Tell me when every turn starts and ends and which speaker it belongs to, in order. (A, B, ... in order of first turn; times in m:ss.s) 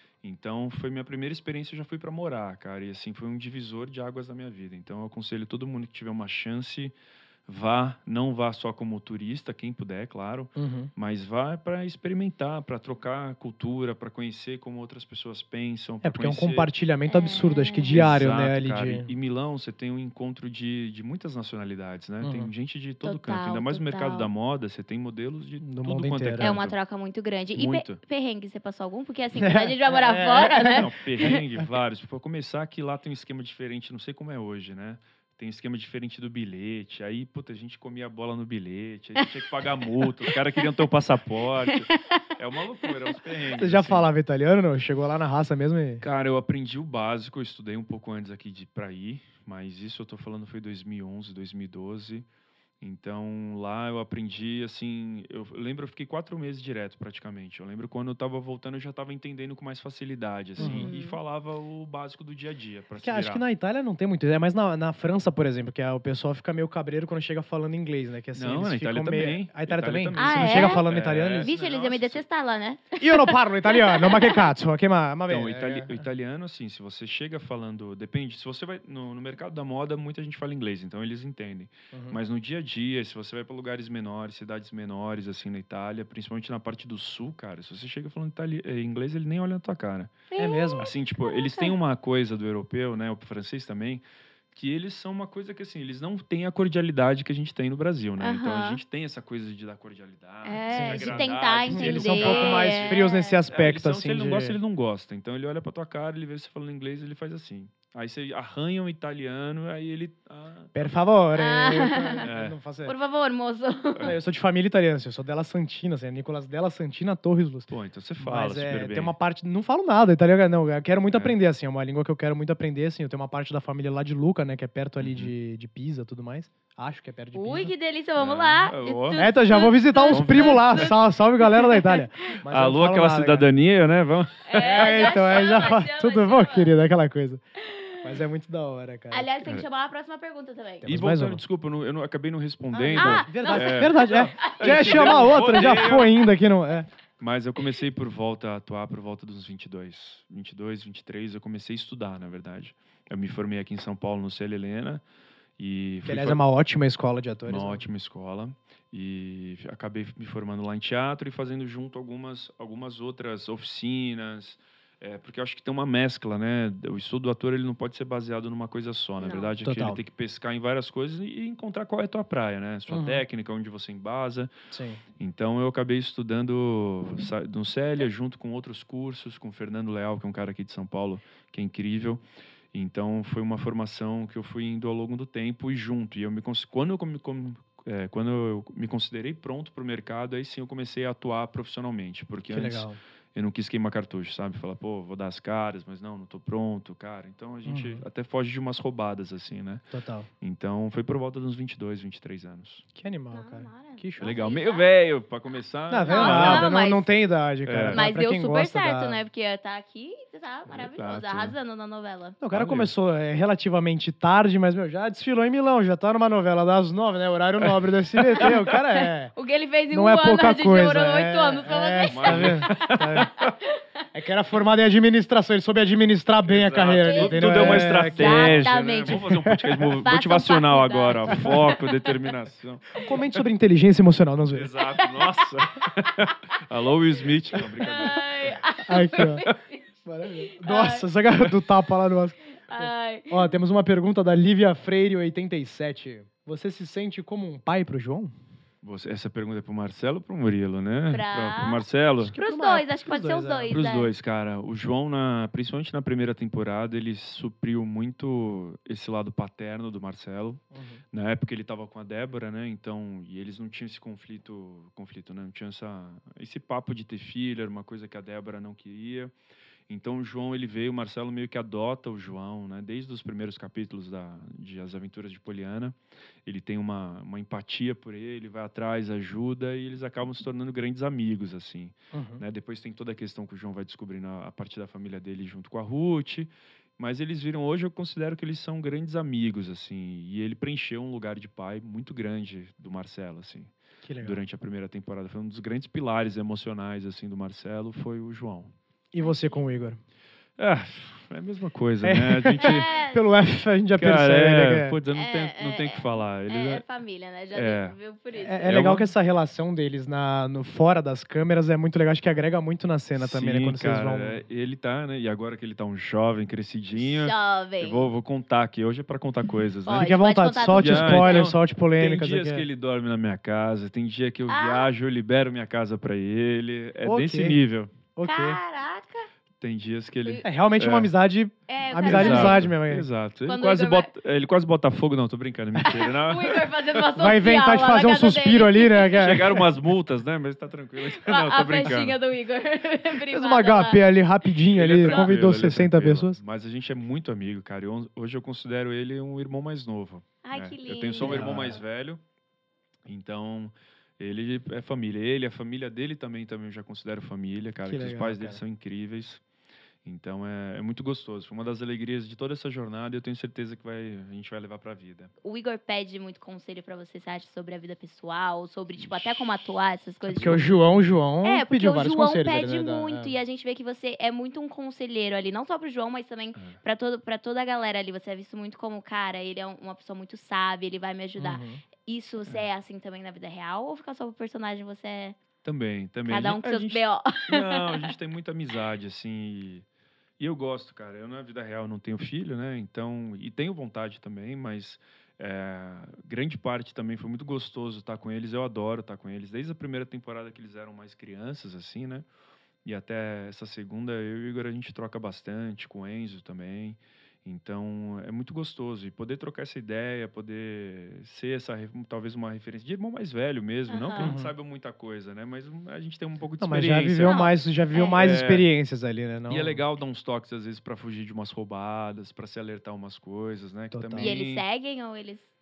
0:00.2-0:06.9 A
0:07.5-0:16.7 A
0:10.6-0:10.9 B
0:16.0-0:19.1 B
0:17.1-0:18.0 C
0:17.9-0:26.8 A
0:22.2-0:22.5 B
0:23.0-0:24.3 C
0:25.6-0:26.6 B
0:26.4-0:30.9 C
0:27.6-0:28.0 A
0:29.4-0:31.4 B
0:30.7-0:44.1 A
0:43.6-0:46.0 B
0:46.0-0:52.3 A
0:52.8-1:03.4 A
1:00.6-1:01.2 C
1:00.6-1:00.9 B
1:03.0-1:11.5 B
1:08.4-1:12.2 A
1:10.2-1:10.8 C
1:11.4-1:14.4 C
1:13.0-1:16.0 B
1:15.3-1:30.3 A
1:21.9-1:22.2 B
1:30.3-1:31.8 C
1:30.4-1:30.9 B
1:30.8-1:50.8 A
1:38.2-1:38.8 C
1:40.4-1:43.4 C
1:40.7-1:44.6 B
1:50.8-1:53.0 B
1:51.4-1:52.2 C
1:52.2-1:52.6 A
1:52.8-1:54.1 C
1:54.0-2:07.7 B
1:57.7-1:59.1 A
2:01.1-2:01.4 A
2:05.0-2:05.3 A
2:07.3-2:12.0 C
2:08.2-2:09.2 A
2:09.2-2:13.5 B
2:10.1-2:10.9 A
2:12.5-2:14.6 A
2:14.5-2:16.7 C
2:14.6-2:17.4 B
2:17.6-2:18.1 C
2:18.0-2:19.3 B
2:19.1-2:20.9 C
2:20.8-2:21.4 B
2:20.9-2:26.2 A
2:22.8-2:26.9 B
2:22.9-2:25.8 C
2:27.2-2:35.0 A
2:35.6-2:36.4 A
2:36.1-2:37.8 B
2:37.5-2:54.5 A
2:49.2-2:49.5 C
2:49.6-2:50.0 B
2:52.9-2:53.2 B
2:54.7-2:55.0 B
2:55.2-3:02.2 A
3:02.7-3:19.9 A
3:12.5-3:13.0 B
3:17.7-3:18.0 B
3:19.9-3:20.3 B
3:20.4-3:22.8 A
3:23.0-3:24.3 B
3:23.3-3:24.9 C
3:24.2-3:26.7 A
3:25.9-3:29.2 B
3:26.1-3:27.1 C
3:27.7-3:28.0 A
3:27.9-3:32.4 C
3:30.7-3:31.6 A
3:32.4-3:39.3 B
3:32.5-3:32.9 A
3:39.3-3:42.9 C
3:39.9-3:43.3 B
3:42.1-3:43.5 A
3:43.4-3:43.8 C
3:44.1-3:49.8 B
3:46.4-3:53.4 A
3:47.0-3:49.2 C
3:50.0-3:51.9 C
3:53.0-3:54.7 B
3:54.5-3:58.5 A
3:57.8-3:59.9 C
3:58.9-3:59.4 B
4:00.1-4:08.3 B
4:00.4-4:01.1 C
4:02.7-4:03.5 C
4:08.8-4:12.4 A
4:11.1-4:11.8 C
4:12.2-4:13.8 B
4:12.4-4:14.1 C
4:13.7-4:20.6 A
4:20.7-4:21.0 B
4:21.1-4:29.3 A
4:29.9-4:58.7 A
4:42.1-4:42.4 B
4:54.0-4:54.4 B
4:59.1-5:00.0 B
4:59.2-4:59.7 C
5:00.6-5:02.9 A
5:02.0-5:05.0 B
5:02.6-5:03.2 C
5:04.0-5:06.8 A
5:05.1-5:08.7 C
5:07.5-5:08.0 A
5:08.4-5:14.4 B
5:08.7-5:09.1 A
5:13.2-5:20.2 A
5:17.0-5:18.1 C
5:19.9-5:21.5 C
5:19.9-5:22.6 B
5:20.7-5:27.9 A
5:24.5-5:24.9 C
5:27.0-5:27.6 B
5:28.2-5:28.6 B
5:28.2-5:29.3 C
5:29.6-5:31.1 A
5:30.4-5:33.1 B
5:31.7-5:32.7 C
5:32.0-5:36.7 A
5:33.5-5:34.1 C
5:35.8-5:39.2 C
5:37.2-5:39.7 B
5:39.2-5:42.2 A
5:41.1-5:44.0 C
5:43.3-5:46.4 B
5:44.8-5:52.2 A
5:45.0-5:45.3 C
5:50.4-5:51.6 C
5:51.2-5:51.8 B
5:53.1-5:59.4 A
5:57.8-5:58.6 B
6:00.0-6:05.3 A
6:05.4-6:10.7 C
6:09.0-6:09.6 A
6:10.3-6:13.4 B
6:10.4-6:10.6 A
6:11.4-6:25.4 C
6:21.4-6:21.8 B
6:25.6-6:29.8 A
6:26.3-6:28.1 C
6:30.4-6:42.3 A
6:42.8-6:57.4 A
6:53.9-6:54.3 C
6:54.2-6:54.5 B
6:56.6-6:59.8 B
6:57.2-6:58.2 C
6:58.2-6:58.7 A
6:59.5-7:04.6 A
7:03.9-7:04.3 B
7:04.2-7:05.5 C